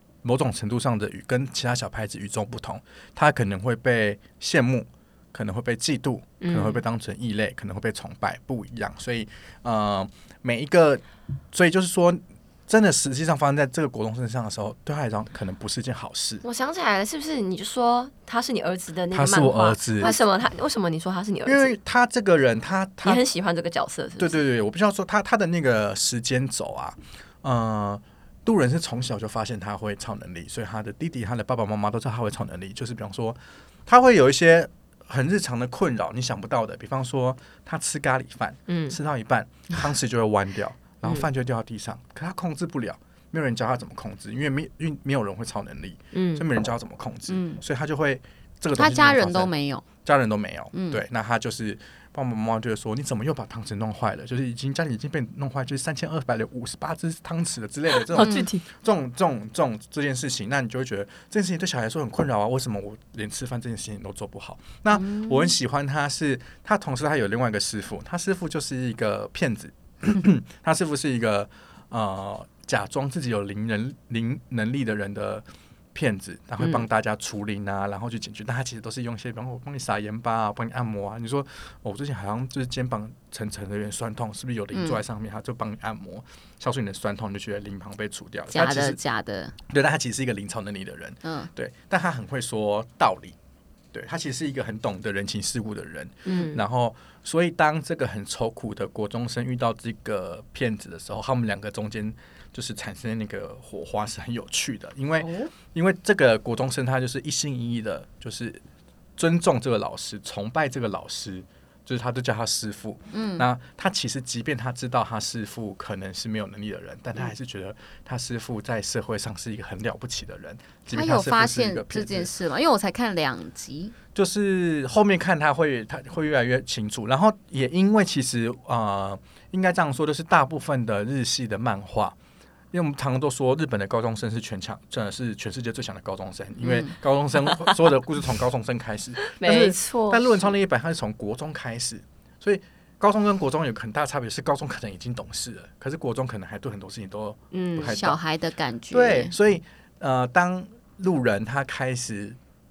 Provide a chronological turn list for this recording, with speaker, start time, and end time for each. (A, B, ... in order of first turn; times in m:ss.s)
0:00.2-0:16.4 A
0:06.4-0:06.8 B
0:16.4-0:21.8 B
0:19.1-0:20.1 A
0:21.4-0:23.2 A
0:23.0-0:24.4 B
0:24.2-1:29.0 A
0:38.7-0:39.0 B
0:46.1-0:46.4 B
0:47.3-0:47.6 C
0:48.8-0:49.9 C
0:50.7-0:51.0 C
0:58.1-0:58.6 B
0:58.2-0:58.5 C
1:04.9-1:05.5 C
1:24.7-1:25.0 C
1:28.5-1:29.5 C
1:29.7-1:33.4 A
1:31.2-1:31.5 C
1:33.9-1:48.6 A
1:36.2-1:36.6 B
1:49.2-2:02.3 A
1:53.1-1:53.4 C
2:00.9-2:04.0 C
2:04.1-2:12.1 A
2:12.7-2:28.2 A
2:16.6-2:16.9 C
2:19.3-2:20.5 B
2:27.5-2:28.0 B
2:27.8-2:29.3 C
2:28.9-2:32.4 A